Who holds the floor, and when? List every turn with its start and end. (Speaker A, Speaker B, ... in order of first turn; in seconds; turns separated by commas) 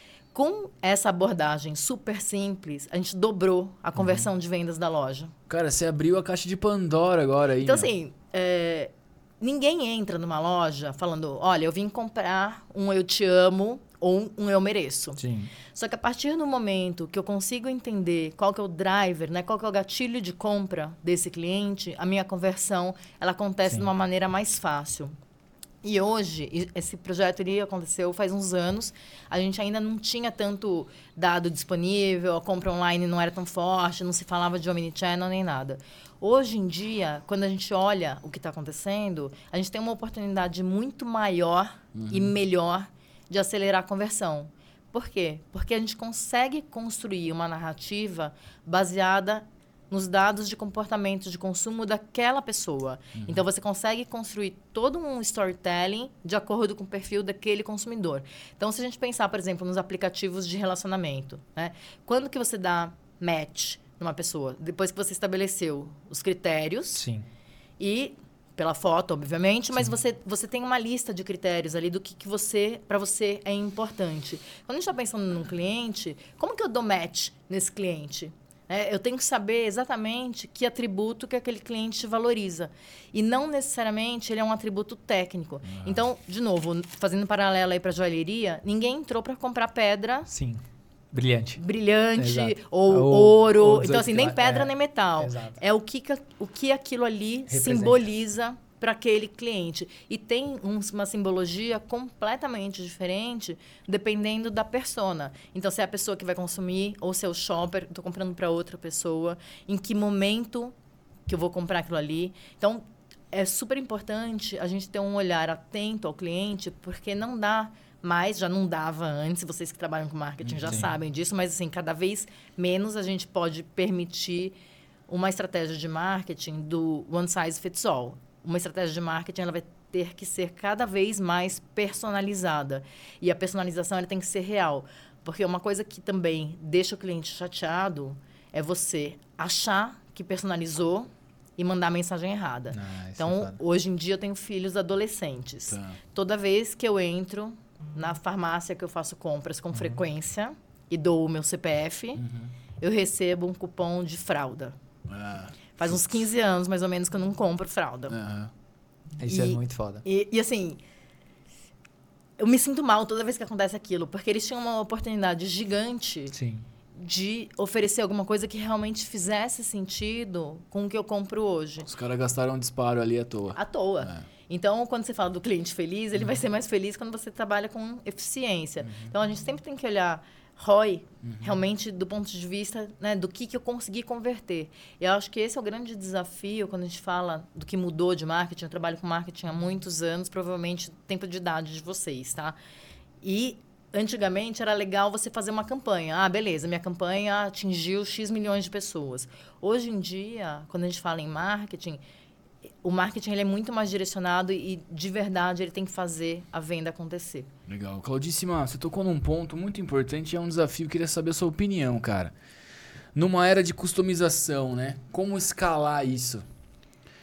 Speaker A: 0.3-5.3, Speaker B: 4.0-4.2, Speaker C: 5.5-7.9, Speaker A: 7.6-15.2, Speaker B: 15.2-15.5, Speaker A: 15.7-25.1, Speaker A: 25.8-67.0, Speaker C: 42.0-42.3, Speaker B: 66.9-67.3, Speaker A: 67.8-90.3, Speaker B: 90.3-91.6, Speaker A: 91.6-110.7, Speaker B: 92.2-95.6, Speaker B: 97.5-98.0, Speaker A: 111.3-124.5, Speaker B: 120.7-120.9, Speaker A: 125.1-152.2, Speaker B: 142.7-143.6, Speaker C: 145.7-146.0, Speaker B: 149.7-150.0, Speaker C: 152.2-152.5, Speaker A: 152.8-154.8, Speaker C: 155.1-156.0, Speaker A: 155.8-158.2, Speaker C: 158.1-158.5, Speaker B: 159.2-160.0, Speaker A: 159.3-160.8, Speaker A: 162.4-166.3, Speaker B: 166.3-166.6, Speaker A: 166.9-171.9, Speaker C: 171.9-174.2, Speaker A: 173.6-192.6, Speaker C: 178.8-179.1, Speaker C: 181.2-181.6, Speaker A: 193.2-202.0, Speaker A: 202.8-207.5, Speaker C: 207.7-212.3, Speaker C: 213.2-216.4